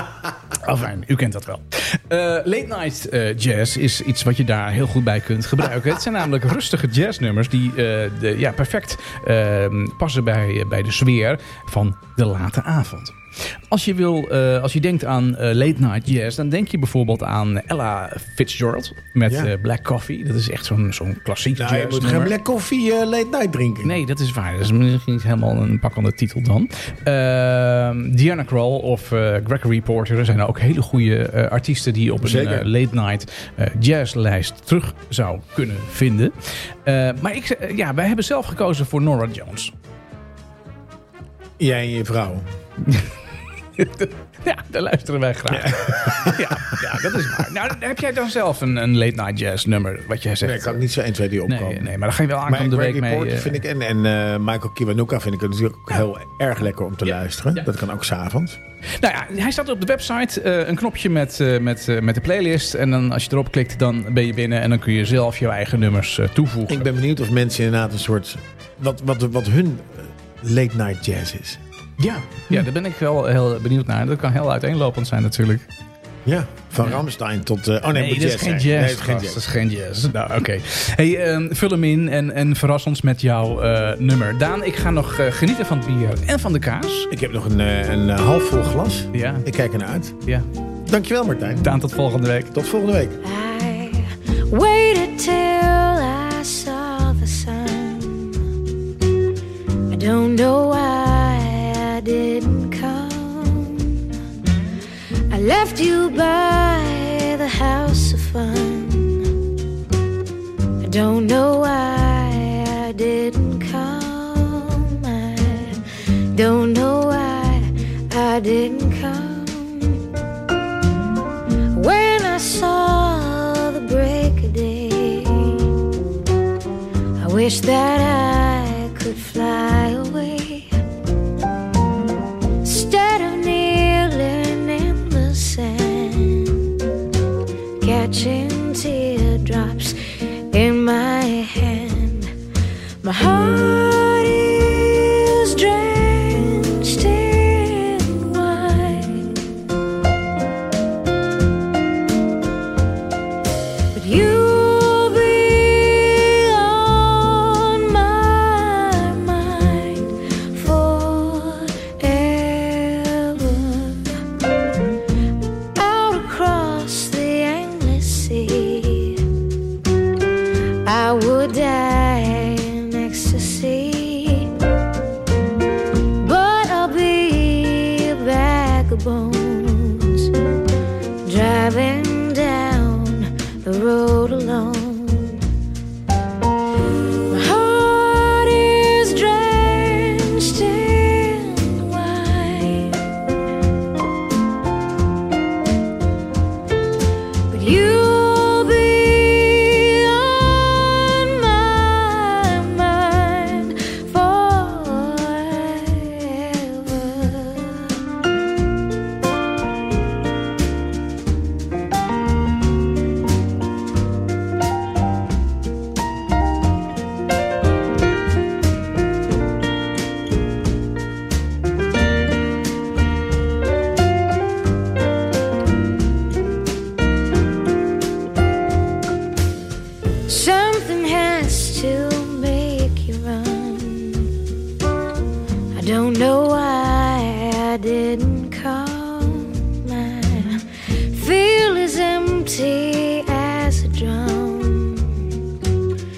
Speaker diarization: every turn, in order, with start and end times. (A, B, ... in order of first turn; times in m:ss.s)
0:00.6-0:22.4 A
0:19.3-0:19.5 B
0:21.6-0:24.0 B
0:23.8-0:39.7 A
0:32.2-0:32.7 B
0:41.6-0:42.5 B
0:42.9-0:43.1 A
0:43.8-0:50.8 A
0:45.5-0:46.8 B
0:50.4-0:51.9 B
0:51.5-0:53.6 A
0:52.5-0:58.6 B
0:59.0-1:07.0 A
1:06.7-1:11.6 B
1:12.0-1:15.7 A
1:16.2-1:19.4 B
1:18.0-1:27.1 A
1:27.1-1:30.2 B
1:29.1-1:29.5 A
1:30.9-1:31.8 B
1:31.6-1:32.5 A
1:32.5-1:33.2 B
1:33.2-1:38.5 C
1:39.9-1:44.1 C
1:45.3-1:49.4 C
1:50.8-1:55.8 C
1:56.3-2:00.1 C
2:01.7-2:05.7 C
2:07.2-2:10.7 C
2:12.6-2:16.7 C
2:17.8-2:20.0 C
2:20.5-2:22.3 C
2:23.0-2:29.4 C
2:33.9-2:44.2 C
2:45.8-2:49.2 C
2:50.8-2:54.5 C
2:56.2-3:00.3 C
3:01.3-3:05.4 C
3:07.3-3:13.0 C
3:17.5-3:28.0 C
3:50.3-3:54.3 C
3:55.7-4:05.4 C